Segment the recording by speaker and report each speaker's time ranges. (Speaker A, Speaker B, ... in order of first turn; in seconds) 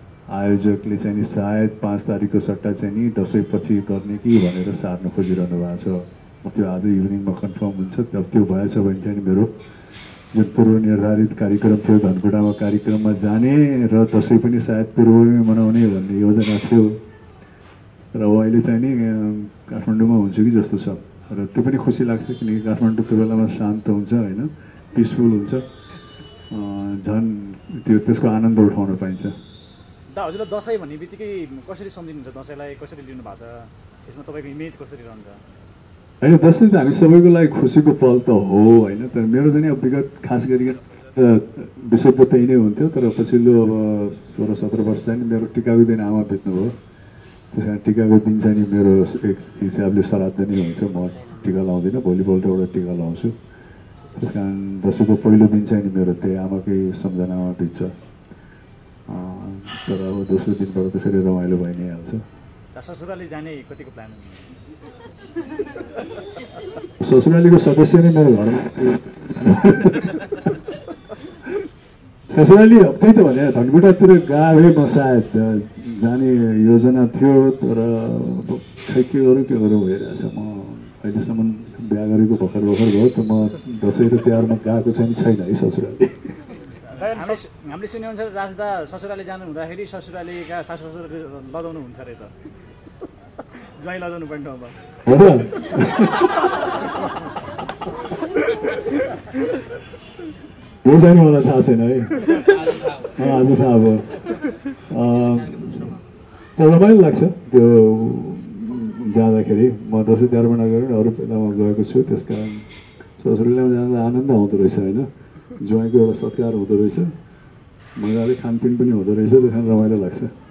Speaker A: 0.3-9.5, 10.3-17.0, 18.1-25.7, 26.5-29.3, 36.2-46.7, 47.5-53.4, 54.2-57.9, 59.1-62.2, 67.0-70.5, 72.3-86.4, 95.0-96.5, 100.8-104.3, 104.9-106.0, 106.6-112.7, 113.2-117.1, 118.0-120.3
Speaker B: 30.1-35.4, 62.7-64.5, 87.0-92.3, 93.8-94.8